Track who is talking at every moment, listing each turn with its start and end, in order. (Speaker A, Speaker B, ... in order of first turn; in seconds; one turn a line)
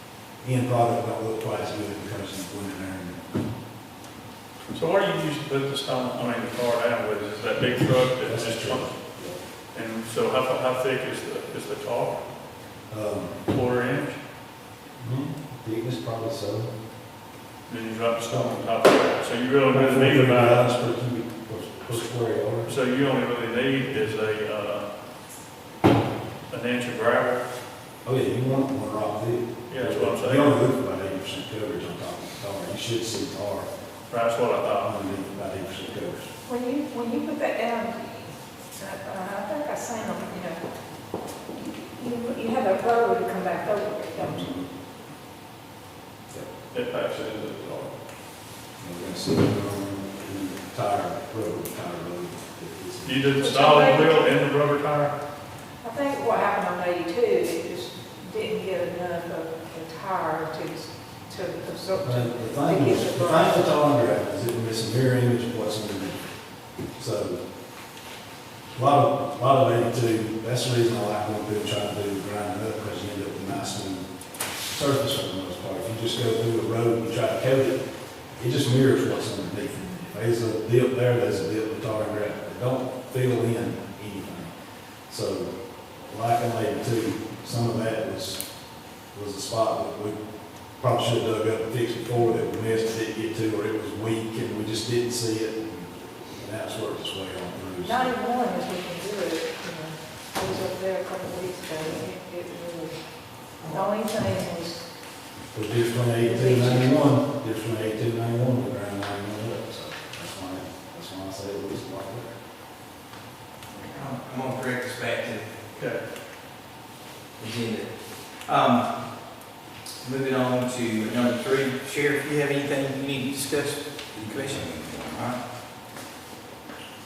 Speaker A: 0.4-3.2
Speaker B: 4.7-9.2
Speaker A: 8.2-9.3
Speaker B: 9.7-12.2
Speaker A: 12.9-13.4
Speaker B: 13.5-14.2
Speaker A: 15.0-16.7
Speaker B: 17.7-20.7
Speaker A: 19.7-22.7
Speaker B: 22.6-24.9
Speaker B: 26.5-27.4
Speaker A: 28.0-33.7
Speaker B: 29.7-30.6
Speaker B: 34.1-34.9
Speaker A: 34.6-36.3
Speaker C: 36.5-40.7
Speaker C: 41.5-44.6
Speaker A: 44.2-44.7
Speaker B: 46.7-47.9
Speaker A: 48.8-53.3
Speaker B: 53.0-55.1
Speaker C: 53.4-54.2
Speaker C: 55.8-63.8
Speaker A: 61.9-66.3
Speaker A: 67.0-67.4
Speaker A: 68.8-74.1
Speaker A: 74.7-77.8
Speaker A: 78.4-84.5
Speaker A: 85.1-85.5
Speaker A: 86.0-88.4
Speaker A: 89.1-90.2
Speaker A: 90.8-98.1
Speaker C: 97.8-104.9
Speaker D: 103.6-103.9
Speaker A: 105.5-112.3
Speaker C: 106.2-107.0
Speaker D: 113.8-115.6
Speaker B: 115.8-116.0
Speaker D: 117.4-119.4
Speaker D: 120.0-125.4